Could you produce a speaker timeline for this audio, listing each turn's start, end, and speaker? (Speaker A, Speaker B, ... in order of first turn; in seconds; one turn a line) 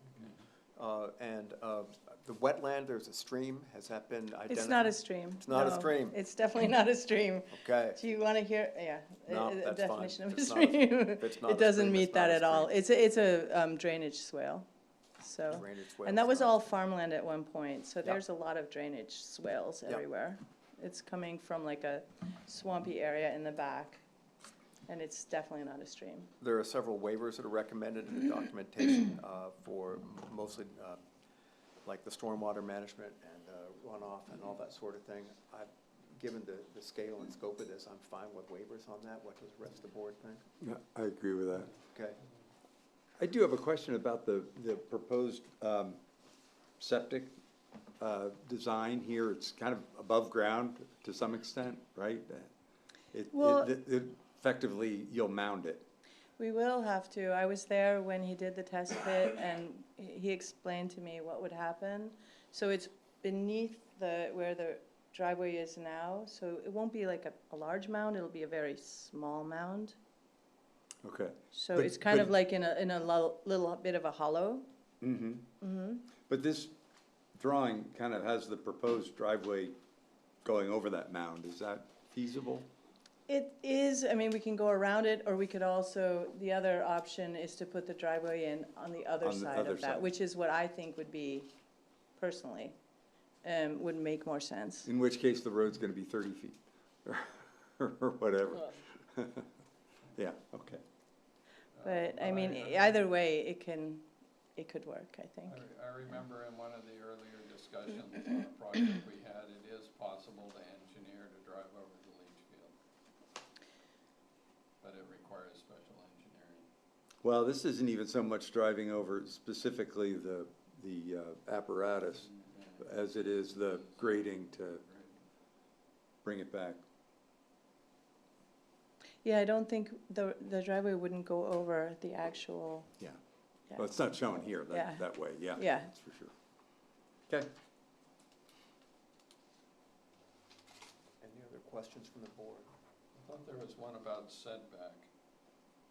Speaker A: 0.8-6.2
Speaker B: 4.5-14.7
Speaker A: 7.5-8.0
Speaker A: 9.3-12.7
Speaker B: 15.2-24.0
Speaker A: 15.5-16.8
Speaker B: 24.9-26.3
Speaker A: 26.4-31.0
Speaker A: 31.8-40.4
Speaker C: 40.6-41.8
Speaker A: 41.9-42.2
Speaker C: 43.2-46.0
Speaker C: 46.8-47.4
Speaker C: 48.0-52.5
Speaker C: 53.1-55.9
Speaker B: 53.3-53.7
Speaker B: 56.4-70.0
Speaker C: 71.0-72.3
Speaker B: 71.5-74.7
Speaker C: 75.0-75.5
Speaker B: 75.6-76.0
Speaker C: 76.2-76.7
Speaker C: 77.3-79.8
Speaker C: 80.4-82.7
Speaker B: 83.3-91.5
Speaker C: 89.2-90.1
Speaker B: 92.2-92.8
Speaker B: 93.4-94.9
Speaker C: 94.8-99.5
Speaker C: 100.2-100.8
Speaker D: 101.8-103.0
Speaker B: 101.8-105.6
Speaker D: 105.5-112.7
Speaker D: 114.8-116.7
Speaker C: 117.2-122.3
Speaker D: 122.1-125.2
Speaker C: 122.8-124.8
Speaker C: 126.2-126.8
Speaker B: 129.2-132.9
Speaker B: 133.7-134.2
Speaker C: 133.8-136.3
Speaker B: 134.7-135.9
Speaker A: 141.2-142.7
Speaker D: 143.2-145.1